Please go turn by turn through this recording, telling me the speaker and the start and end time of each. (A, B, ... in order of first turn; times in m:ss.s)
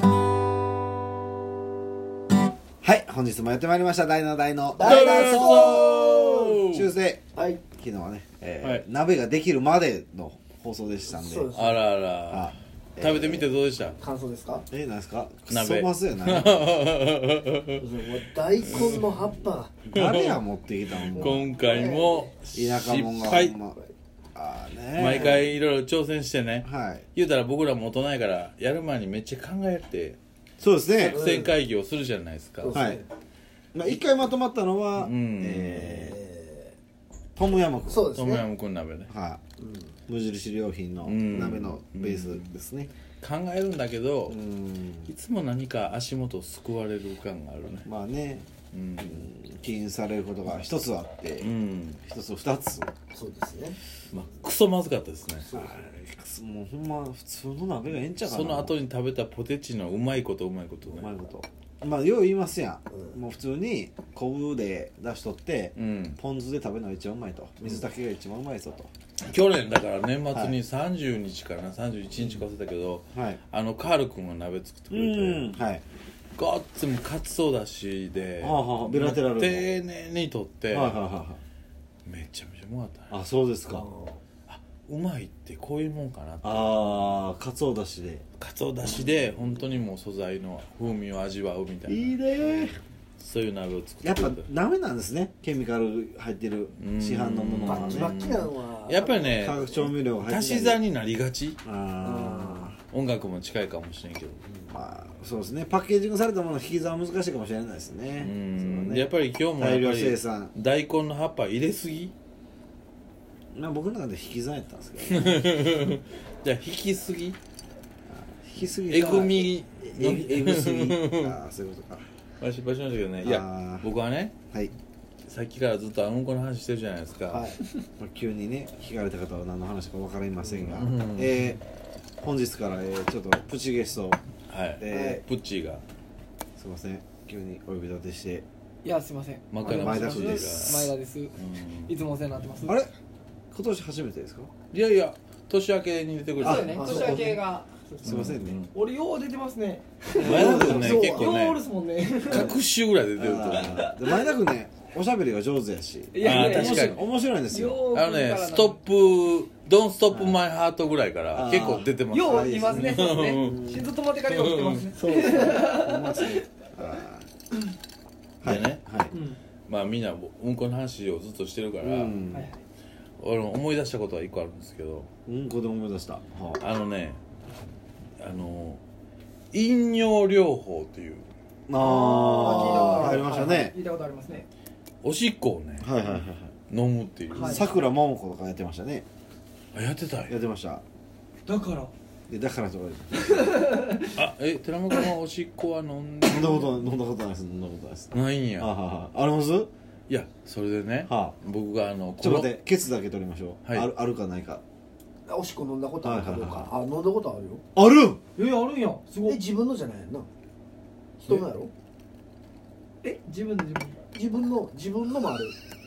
0:02.8-0:11.5 A
0:04.7-0:06.2 B
0:04.8-0:06.9 C
0:07.3-0:07.6 B
0:11.1-0:11.8 B
0:11.5-0:14.0 C
0:12.3-0:13.4 A
0:14.0-0:14.6 B
0:14.7-0:16.7 A
0:15.5-0:17.8 C
0:17.8-0:19.7 B
0:18.6-0:19.1 C
0:19.9-0:21.5 A
0:19.9-0:20.4 C
0:21.0-0:23.6 C
0:21.2-0:22.3 B
0:22.5-0:23.8 A
0:24.3-0:25.4 A
0:25.0-0:30.2 C
0:26.6-0:27.0 A
0:30.6-0:31.2 A
0:31.0-0:32.8 C
0:31.1-0:31.5 B
0:32.6-0:33.1 B
0:32.7-0:33.0 A
0:33.7-0:36.2 A
0:35.0-0:36.2 C
0:36.2-0:36.7 B
0:37.4-0:38.1 A
0:37.9-0:38.4 B
0:38.1-0:39.1 C
0:39.1-0:39.4 A
0:39.6-0:40.0 B
0:40.1-0:42.9 A
0:41.0-0:42.5 C
0:43.2-0:44.4 C
0:44.3-0:45.1 A
0:45.1-0:47.9 C
0:47.8-0:51.5 A
0:48.7-0:49.3 C
0:51.4-0:52.0 C
0:52.0-0:52.9 A
0:53.1-0:53.8 B
0:54.1-0:55.5 C
0:55.4-0:55.8 B
0:55.5-0:58.7 A
0:58.2-1:01.1 C
1:00.9-1:08.9 A
1:05.8-1:06.2 C
1:09.2-1:15.6 C
1:13.1-1:13.4 A
1:14.9-1:15.8 A
1:16.3-1:21.0 C
1:18.4-1:19.7 A
1:20.7-1:21.4 A
1:22.0-1:23.1 C
1:23.1-1:23.8 A
1:23.7-1:24.2 B
1:24.5-1:27.0 C
1:26.4-1:28.2 A
1:28.4-1:32.6 C
1:31.9-1:32.8 A
1:33.2-1:34.5 C
1:34.0-1:38.1 A
1:36.8-1:41.6 C
1:37.6-1:39.4 B
1:39.4-1:40.8 A
1:41.6-1:42.8 A
1:42.0-1:42.7 B
1:42.9-1:44.4 C
1:44.7-1:49.1 A
1:48.2-1:52.1 C
1:49.6-1:50.5 A
1:53.5-1:55.5 A
1:55.0-1:57.4 C
1:58.1-2:02.0 A
1:58.9-2:01.4 C
2:02.4-2:04.4 C
2:03.2-2:03.9 A
2:05.3-2:07.5 C
2:07.3-2:07.6 B
2:08.0-2:11.6 A
2:10.6-2:11.6 C
2:12.2-2:14.2 A
2:14.5-2:15.8 C
2:14.8-2:15.2 A
2:14.9-2:15.2 B
2:16.6-2:18.4 A
2:18.8-2:21.4 D
2:19.5-2:21.9 C
2:19.6-2:20.9 A
2:21.9-2:22.8 D
2:22.6-2:22.9 A
2:23.5-2:24.5 A
2:24.7-2:27.2 C
2:26.4-2:32.5 D
2:26.4-2:27.4 B
2:28.0-2:28.6 A
2:28.0-2:28.7 C
2:30.1-2:31.3 B
2:30.2-2:31.3 A
2:30.2-2:31.6 C
2:32.2-2:33.9 C
2:32.3-2:32.6 A
2:33.2-2:37.8 A
2:36.1-2:38.8 D
2:36.2-2:37.0 C
2:37.9-2:43.6 C
2:40.1-2:40.4 A
2:41.3-2:43.9 A
2:42.1-2:46.4 D
2:44.2-2:44.8 C
2:45.0-2:47.3 A
2:45.0-2:45.7 B
2:48.4-2:48.8 C
2:48.4-2:49.1 A
2:49.1-2:49.4 D
2:49.7-2:52.2 C
2:51.8-2:52.5 A
2:52.3-2:52.6 D
2:53.2-2:55.1 C
2:55.2-2:56.6 A
2:56.6-2:57.2 C
2:58.2-2:58.8 C
2:59.5-3:01.3 C
3:01.7-3:03.7 A
3:01.8-3:04.5 D
3:01.8-3:03.6 B
3:05.0-3:07.7 C
3:05.8-3:06.5 A
3:07.3-3:07.6 D
3:07.4-3:09.0 A
3:09.7-3:10.3 C
3:10.3-3:10.8 A
3:11.4-3:11.9 D
3:12.3-3:13.6 A
3:13.2-3:14.2 D
3:14.0-3:16.8 C
3:16.2-3:19.7 A
3:18.1-3:18.7 C
3:20.1-3:22.5 C
3:21.1-3:21.4 A
3:22.2-3:24.6 A
3:25.3-3:27.6 B
3:26.0-3:26.7 A
3:27.7-3:28.2 A
3:28.4-3:29.4 D
3:29.3-3:30.3 B
3:31.2-3:31.7 B
3:33.0-3:34.0 D
3:34.1-3:35.5 B